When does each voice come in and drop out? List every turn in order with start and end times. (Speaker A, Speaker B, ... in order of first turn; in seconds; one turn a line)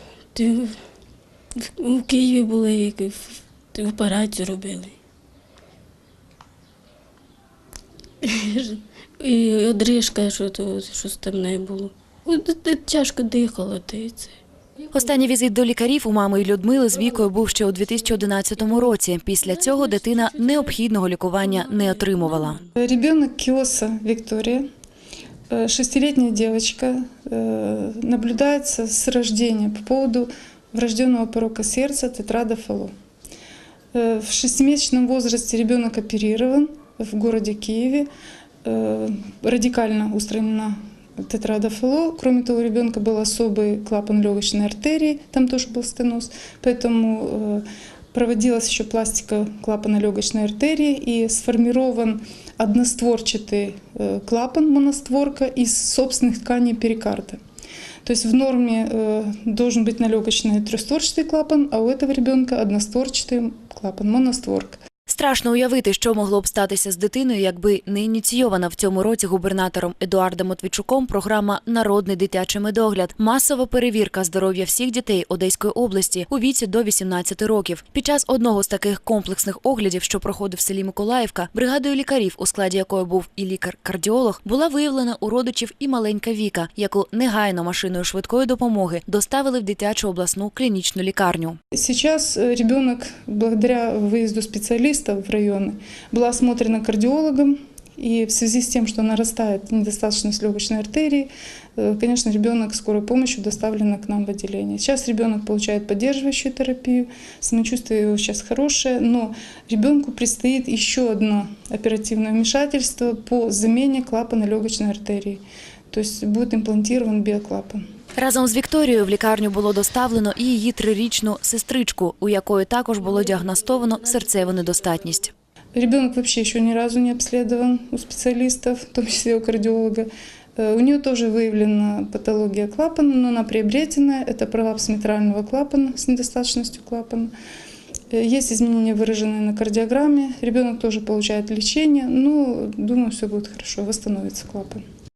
Speaker A: 0.3-0.8
Speaker A: 1.6-5.0
Speaker A: 8.2-14.3
Speaker B: 14.9-22.6
Speaker C: 22.8-24.6
Speaker C: 25.5-32.9
Speaker C: 33.9-38.1
Speaker C: 38.6-57.4
Speaker C: 58.0-64.8
Speaker B: 65.1-91.6
Speaker C: 91.8-117.8
Speaker B: 118.2-125.3
Speaker C: 125.7-137.3
Speaker C: 138.1-144.8